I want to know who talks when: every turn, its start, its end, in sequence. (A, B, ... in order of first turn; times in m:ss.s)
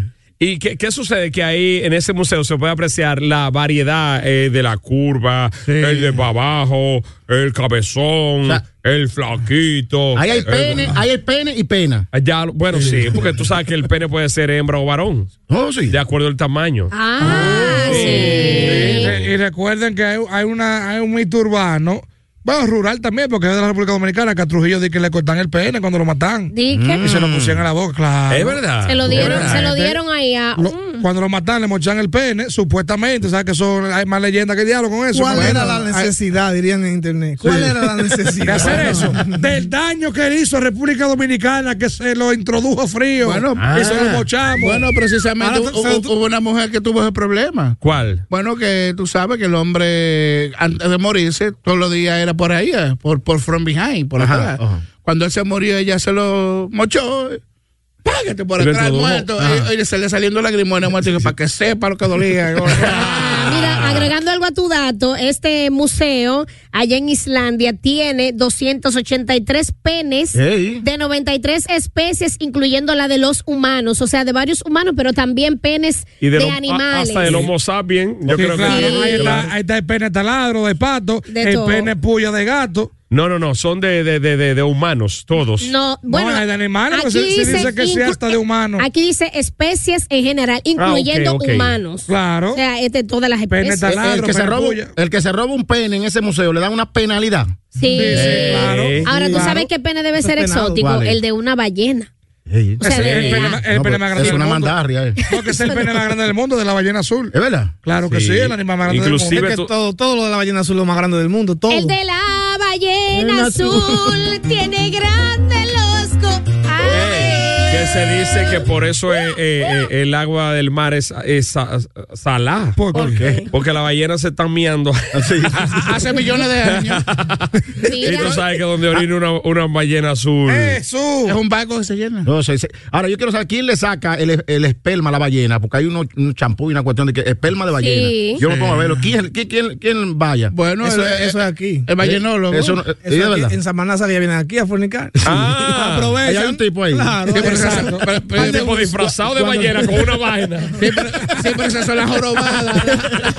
0:00.4-0:10.9 A
0:10.1-0:12.1 B
0:12.1-0:15.3 A
0:12.8-0:13.3 B
0:15.5-0:16.0 B
0:15.9-0:19.2 A
0:16.9-0:19.1 C
0:17.2-0:29.8 D
0:26.5-0:27.0 C
0:26.7-0:27.6 B
0:28.3-0:29.7 A
0:28.8-0:31.0 C
0:29.1-0:29.5 B
0:30.6-0:36.1 D
0:35.1-0:39.4 E
0:37.4-0:37.7 F
0:38.4-0:44.9 D
0:43.2-0:43.7 F
0:43.5-0:44.2 A
0:44.5-0:47.8 F
0:45.4-0:46.0 E
0:45.4-0:45.9 D
0:47.8-0:48.2 A
0:48.3-0:57.4 F
0:54.2-0:54.8 B
0:58.0-1:03.0 F
0:58.6-0:59.3 A
0:59.4-0:59.7 B
1:02.8-1:17.3 C
1:03.0-1:03.8 A
1:10.3-1:10.8 B
1:16.2-1:19.5 A
1:18.3-1:22.9 D
1:18.5-1:19.4 C
1:21.3-1:21.9 C
1:23.1-1:25.7 A
1:25.6-1:33.9 C
1:26.1-1:28.8 D
1:30.8-1:31.7 A
1:32.1-1:32.6 D
1:33.5-1:34.9 D
1:33.9-1:37.5 B
1:37.8-1:42.1 C
1:37.9-1:39.6 D
1:38.1-1:39.1 A
1:39.1-1:40.8 E
1:40.8-1:41.2 B
1:42.5-1:45.2 B
1:42.8-1:47.3 D
1:42.8-1:43.6 C
1:43.0-1:43.5 A
1:45.4-1:45.8 C
1:47.3-1:47.7 B
1:47.8-1:49.5 D
1:48.0-1:49.7 A
1:49.3-1:51.9 E
1:51.7-1:58.6 C
1:53.1-1:54.2 E
1:56.9-2:02.8 A
2:02.8-2:03.3 D
2:03.5-2:05.8 A
2:05.1-2:05.8 B
2:05.8-2:07.0 F
2:06.6-2:07.4 A
2:07.8-2:08.4 C
2:08.0-2:10.8 A
2:10.5-2:11.4 D
2:11.3-2:12.3 F
2:12.2-2:20.5 B
2:17.8-2:18.4 C
2:18.4-2:19.0 F
2:20.5-2:22.8 F
2:20.8-2:21.9 E
2:22.0-2:23.5 B
2:23.0-2:25.1 E
2:25.2-2:26.2 A
2:25.7-2:30.2 E
2:26.2-2:27.3 B
2:27.4-2:28.6 F
2:27.4-2:28.2 D
2:28.4-2:30.8 A
2:30.8-2:33.1 F